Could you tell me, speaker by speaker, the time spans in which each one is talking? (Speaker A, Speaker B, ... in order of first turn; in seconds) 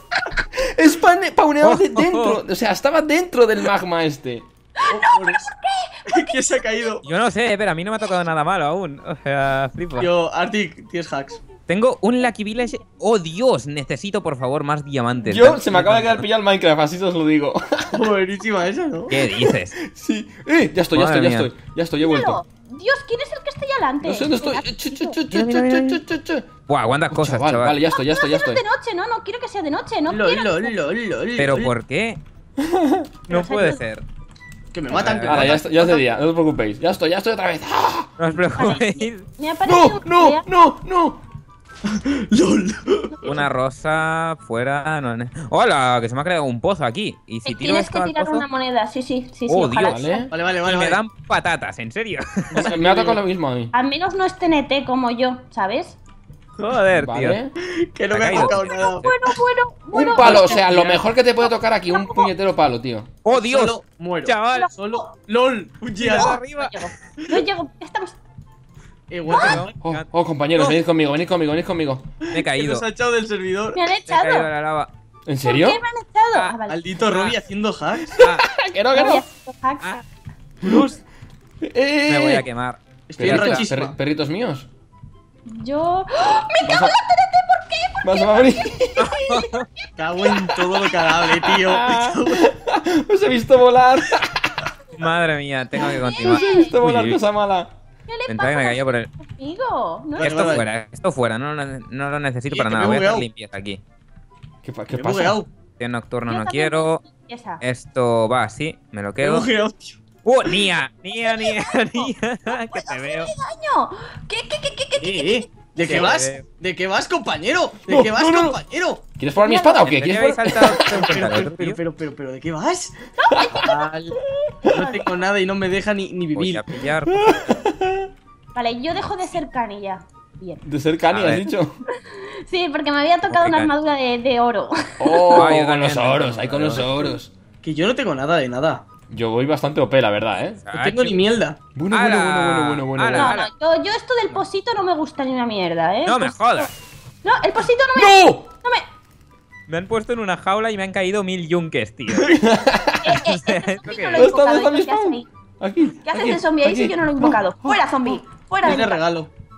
Speaker A: 0.6-4.5, 15.3-18.1, 19.4-22.4, 24.0-26.5, 27.1-28.6, 32.6-33.1, 35.1-38.1, 39.6-41.2, 49.9-50.3, 52.6-53.7, 56.9-57.5, 59.9-63.1, 69.8-72.0, 75.2-75.8, 78.2-79.2, 81.6-82.5, 83.2-84.7, 86.6-87.0, 88.0-89.2, 90.5-94.5, 96.2-97.7, 104.6-105.4, 117.9-118.6, 119.2-120.9, 127.1-128.1, 130.6-131.8, 135.0-137.3, 139.1-140.6, 141.8-143.4, 147.9-148.5, 152.4-153.1, 154.2-158.2
Speaker B: 1.6-2.4, 7.0-10.1, 11.7-16.2, 19.1-19.8, 20.9-21.5, 25.3-26.0, 26.7-27.8, 31.4-32.2, 33.3-34.0, 34.9-35.6, 38.2-39.2, 43.2-48.4, 49.5-50.0, 50.6-52.6, 56.6-57.4, 58.1-59.1, 63.2-64.7, 66.0-66.9, 69.2-70.0, 72.3-72.9, 74.0-74.9, 76.3-77.4, 78.2-78.5, 82.1-83.6, 89.0-89.7, 95.0-97.2, 98.3-99.1, 100.2-103.8, 105.8-107.0, 107.6-109.5, 110.2-113.3, 115.8-116.4, 119.8-121.8, 126.3-127.3, 131.1-131.4, 133.3-133.7, 135.3-136.9, 140.6-141.2, 141.9-143.5, 146.1-146.7, 149.7-152.4, 153.1-154.3
Speaker C: 4.8-6.9, 22.0-25.2, 27.9-30.7, 33.3-33.8, 38.5-40.5, 47.5-50.2, 53.7-56.0, 58.3-60.6, 61.5-62.3, 64.5-65.1, 66.1-68.2, 69.3-69.6, 73.7-74.5, 75.4-76.8, 78.9-80.0, 85.5-88.7, 89.3-89.9, 95.8-96.7, 98.1-100.6, 106.3-107.6, 111.2-115.5, 119.4-119.9, 123.2-123.9, 124.7-125.0, 128.6-130.6, 131.9-135.5, 143.1-146.7, 147.2-148.8, 153.0-155.2, 156.1-159.0
Speaker D: 4.9-5.5, 6.1-7.0, 10.0-11.4, 17.9-19.2, 30.1-31.7, 34.7-36.1, 41.9-43.4, 50.3-51.0, 52.5-53.2, 57.6-59.1, 60.2-61.0, 63.3-66.4, 69.1-69.7, 72.2-73.8, 76.7-78.2, 80.6-81.0, 83.1-84.0, 90.0-92.5, 100.2-100.7, 102.5-103.3, 104.9-105.5, 109.2-110.0, 115.0-119.0, 120.7-123.0, 123.5-126.9, 137.6-138.8, 140.7-141.6, 158.6-159.3